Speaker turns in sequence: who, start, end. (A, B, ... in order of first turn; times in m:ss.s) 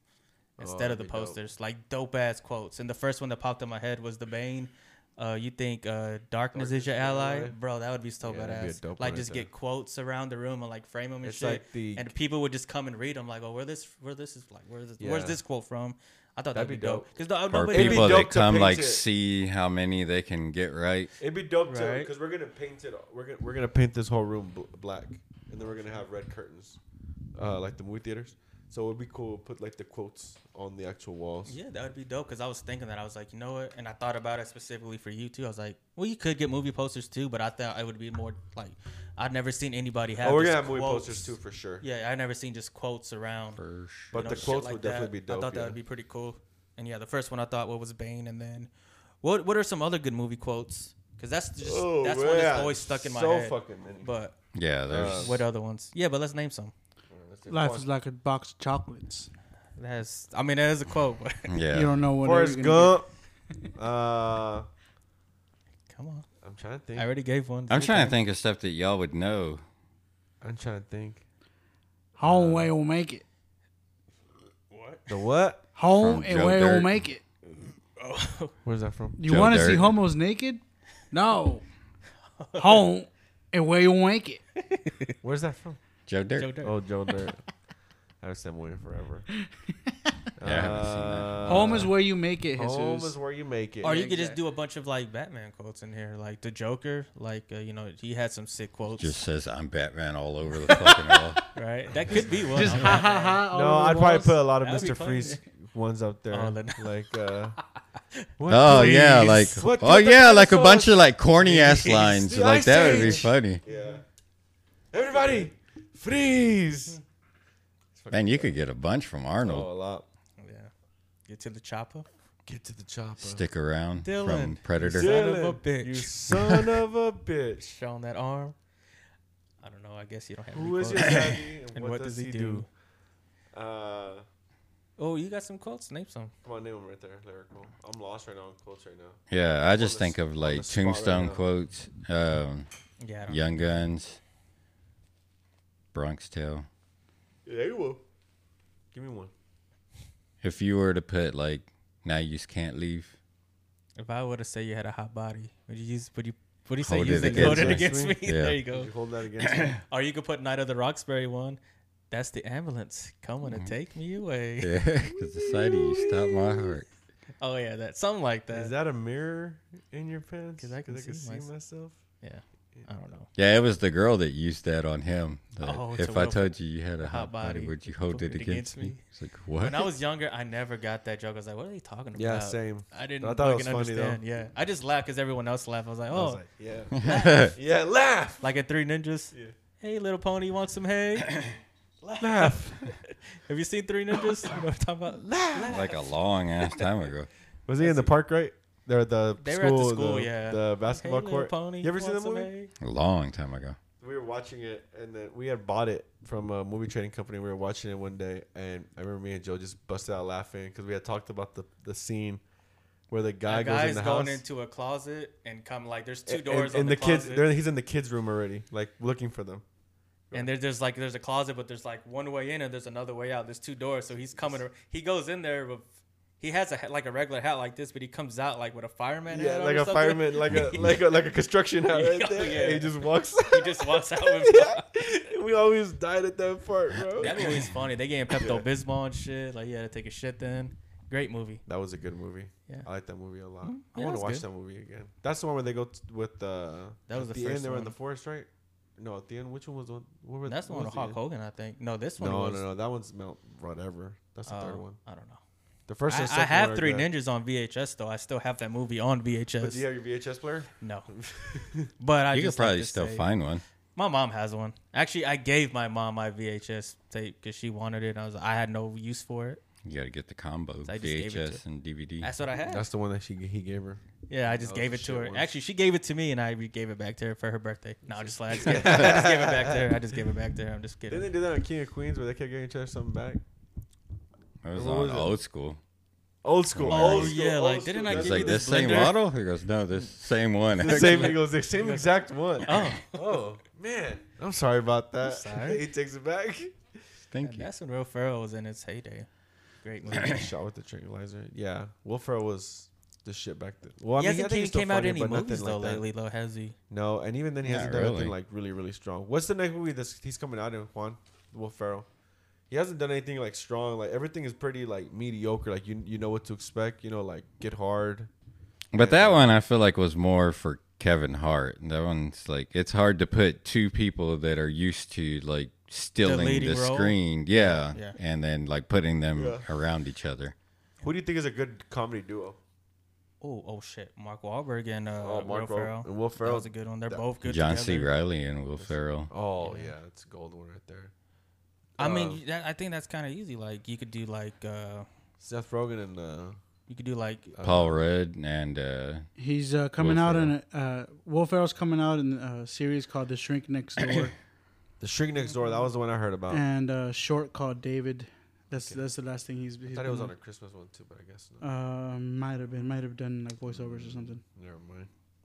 0:00.6-0:01.4 A
0:00.6-0:18.3 B
0:06.5-0:07.5 A
0:08.2-0:09.5 A
0:11.2-0:12.1 A
0:15.0-0:15.4 A
0:16.5-0:17.1 A
0:17.5-0:21.1 C
0:17.7-0:19.0 A
0:21.2-0:26.8 A
0:21.6-0:22.1 B
0:25.6-0:26.0 B
0:27.3-0:31.6 A
0:31.5-0:43.6 B
0:40.2-0:41.8 A
0:43.6-0:44.5 C
0:44.1-0:45.8 A
0:44.1-0:48.7 B
0:49.2-0:54.3 B
0:51.6-0:54.1 A
0:54.5-0:55.4 C
0:54.9-0:55.4 A
0:55.1-0:56.7 B
0:57.1-0:57.9 A
0:57.5-0:59.3 D
0:59.8-1:01.5 B
1:01.5-1:02.0 C
1:01.7-1:03.0 D
1:02.2-1:03.1 A
1:03.7-1:04.7 A
1:05.9-1:06.2 B
1:06.4-1:07.1 A
1:06.9-1:08.1 B
1:07.7-1:09.6 C
1:10.4-1:11.2 A
1:12.2-1:13.2 D
1:12.2-1:12.7 A
1:14.7-1:15.2 B
1:15.1-1:15.6 A
1:15.8-1:17.2 D
1:15.9-1:17.0 C
1:17.6-1:18.5 B
1:18.6-1:19.2 A
1:19.2-1:21.6 D
1:19.2-1:20.0 C
1:22.4-1:22.8 B
1:22.6-1:24.4 D
1:24.6-1:25.1 B
1:25.2-1:25.8 A
1:26.1-1:26.6 C
1:26.4-1:26.8 B
1:26.6-1:27.4 A
1:28.2-1:29.3 A
1:30.4-1:31.9 A
1:30.4-1:31.9 C
1:31.4-1:33.2 D
1:32.6-1:34.2 A
1:33.8-1:39.2 B
1:33.9-1:34.4 D
1:39.0-1:41.4 C
1:40.7-1:41.3 D
1:41.5-1:43.4 B
1:42.1-1:44.4 D
1:42.7-1:47.6 A
1:44.6-1:45.4 B
1:46.3-1:46.9 B
1:48.4-1:51.0 A
1:48.5-1:53.6 C
1:51.4-1:52.3 B
1:52.0-1:54.0 A
1:52.5-1:53.2 D
1:54.9-1:57.0 A
1:57.9-1:58.5 A
1:58.1-1:59.7 C
1:59.4-2:00.0 A
2:00.4-2:00.7 B
2:01.2-2:02.1 B
2:02.4-2:03.4 A
2:03.2-2:05.2 C
2:04.0-2:06.1 B
2:04.8-2:07.7 A
2:07.6-2:08.6 B
2:09.6-2:12.7 B
2:10.5-2:12.7 A
2:11.0-2:11.3 C
2:13.5-2:14.2 A
2:15.0-2:16.3 B
2:16.4-2:19.2 A
2:19.3-2:22.7 C
2:19.8-2:21.4 A
2:23.0-2:23.4 B
2:23.3-2:24.2 C
2:25.9-2:26.7 C
2:27.4-2:28.0 A
2:28.9-2:29.3 A
2:30.4-2:33.2 C
2:34.0-2:38.9 B
2:36.8-2:38.6 C
2:37.1-2:39.8 A
2:39.5-2:39.8 C
2:39.7-2:41.6 B
2:42.1-2:44.7 B
2:43.4-2:43.7 C
2:44.6-2:46.9 C
2:45.4-2:46.7 A
2:47.4-2:48.7 B
2:48.5-2:52.0 A
2:50.6-2:51.5 B
2:52.2-2:53.3 B
2:53.4-2:59.9 C
2:55.6-2:59.0 B
2:59.6-3:06.4 B
3:02.2-3:04.2 A
3:06.1-3:08.5 A
3:06.9-3:07.5 C
3:07.0-3:07.5 B
3:08.4-3:11.4 B
3:12.0-3:16.1 B
3:12.2-3:12.9 A
3:15.2-3:15.9 A
3:15.7-3:17.3 C
3:17.7-3:22.5 A
3:17.8-3:18.2 B
3:19.4-3:22.7 B
3:22.8-3:23.8 C
3:24.0-3:32.4 A
3:33.1-3:34.4 A
3:33.5-3:37.5 B
3:36.3-3:39.6 A
3:40.3-3:45.9 B
3:46.4-3:51.0 B
3:49.3-3:57.7 A
3:51.9-3:54.9 B
3:57.2-4:01.6 B
3:58.4-3:58.6 A
4:01.6-4:11.2 A
4:03.6-4:04.4 B
4:07.1-4:07.9 B
4:10.4-4:12.6 B
4:12.2-4:15.0 A
4:14.4-4:15.4 B
4:15.9-4:17.1 A
4:16.1-4:19.8 B
4:19.6-4:21.9 A
4:20.8-4:21.1 B
4:22.0-4:23.3 B
4:22.3-4:23.6 C
4:23.9-4:29.6 B
4:29.8-4:32.3 C
4:30.8-4:31.6 B
4:32.2-4:32.9 B
4:32.6-4:35.5 A
4:34.3-4:41.3 B
4:38.1-4:39.9 A
4:41.1-4:43.4 A
4:44.6-4:45.8 C
4:44.7-4:45.3 A
4:46.4-4:49.1 A
4:46.7-4:47.3 C
4:46.8-4:49.2 B
4:48.0-4:51.4 C
4:50.8-4:56.9 A
4:50.8-4:53.2 B
4:55.2-4:55.8 B
4:57.3-4:57.7 C
4:57.4-4:59.3 B
4:59.8-5:00.4 B
5:00.1-5:06.0 A
5:00.2-5:00.4 C
5:04.2-5:06.8 B
5:06.9-5:12.1 A
5:07.6-5:08.3 C
5:12.7-5:18.3 A
5:18.9-5:30.5 C
5:18.9-5:19.5 A
5:26.2-5:28.2 B
5:29.3-5:29.6 A
5:31.0-5:32.6 A
5:33.4-5:38.1 B
5:35.2-5:37.2 A
5:37.4-5:39.3 C
5:38.8-5:41.1 A
5:39.6-5:39.9 B
5:42.0-5:42.4 A
5:42.0-5:45.1 B
5:45.4-5:46.6 A
5:46.9-5:47.6 B
5:47.5-5:47.9 A
5:47.6-5:49.3 C
5:49.4-5:54.3 D
5:50.0-5:50.5 C
5:55.0-5:56.6 A
5:56.5-6:00.3 D
5:58.7-5:59.0 A
5:59.9-6:01.6 A
6:01.6-6:04.4 D
6:03.6-6:05.1 A